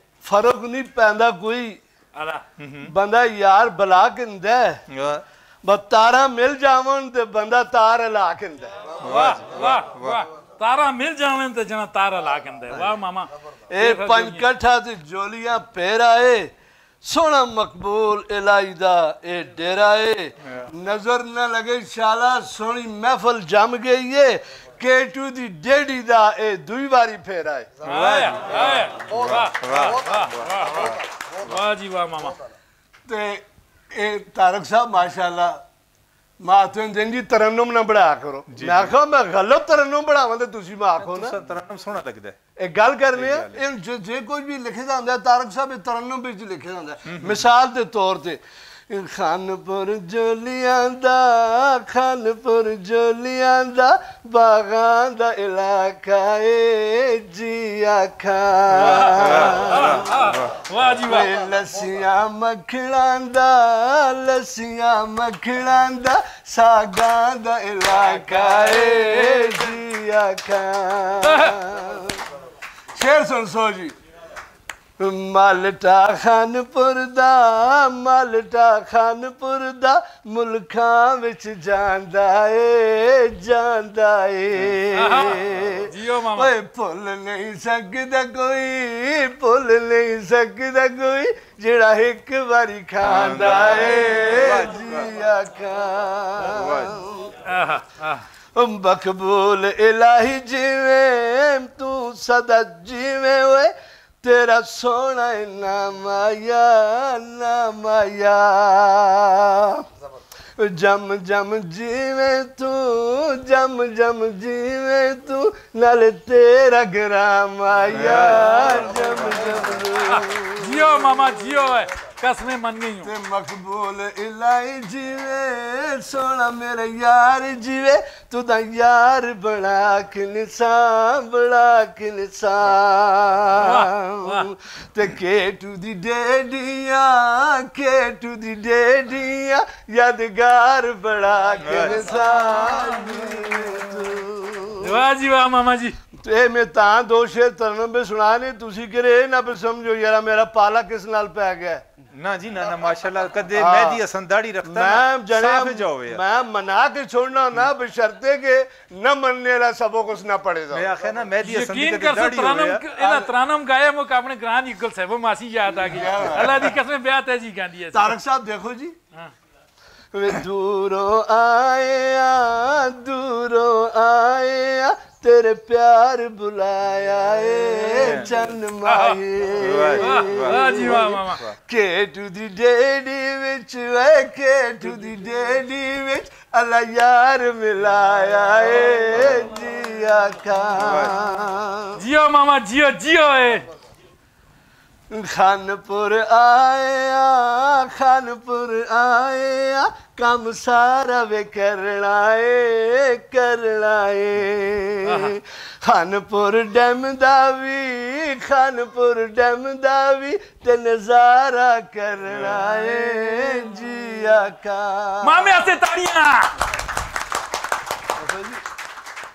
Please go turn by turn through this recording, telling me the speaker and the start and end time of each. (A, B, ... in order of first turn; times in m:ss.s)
0:00.2-0:01.8 A
0:02.2-0:02.4 B
0:02.6-0:02.9 C
0:02.8-0:04.8 A
0:04.9-0:05.2 C
0:05.6-0:09.0 A
0:09.0-0:10.2 C
0:09.0-0:14.4 B
0:13.7-0:16.5 A
0:17.0-0:27.8 A
0:20.4-0:20.7 C
0:27.8-0:32.4 B
0:27.8-0:31.5 C
0:33.1-0:35.6 A
0:36.4-0:41.4 A
0:38.5-0:38.9 C
0:41.0-0:42.4 C
0:42.6-1:00.0 A
0:43.1-0:43.6 C
0:47.1-0:47.4 C
0:58.8-1:01.3 B
0:58.9-1:00.6 C
1:01.0-1:12.2 A
1:08.3-1:09.8 B
1:11.2-1:11.6 B
1:12.9-1:14.0 A
1:15.0-1:37.4 A
1:24.9-1:26.5 B
1:33.0-1:35.1 C
1:36.4-1:37.0 C
1:37.4-1:38.2 B
1:38.6-1:49.8 A
1:50.6-2:01.0 A
1:57.9-1:59.8 C
2:00.0-2:03.1 B
2:03.0-2:25.0 A
2:13.6-2:14.5 B
2:21.6-2:22.2 C
2:24.8-2:26.0 B
2:26.2-2:31.8 A
2:32.1-2:36.2 C
2:33.6-2:34.0 A
2:34.6-2:40.9 A
2:40.7-2:42.8 C
2:41.4-2:48.1 B
2:43.0-2:43.3 A
2:45.8-2:46.8 A
2:47.9-2:49.0 A
2:50.1-3:12.0 A
2:57.9-2:58.3 C
2:58.8-2:59.2 B
2:59.6-3:01.5 C
3:00.0-3:01.4 B
3:10.8-3:11.2 C
3:12.0-3:13.7 B
3:15.1-3:35.6 A
3:25.0-3:25.4 B
3:35.2-3:36.5 B
3:38.2-3:38.6 A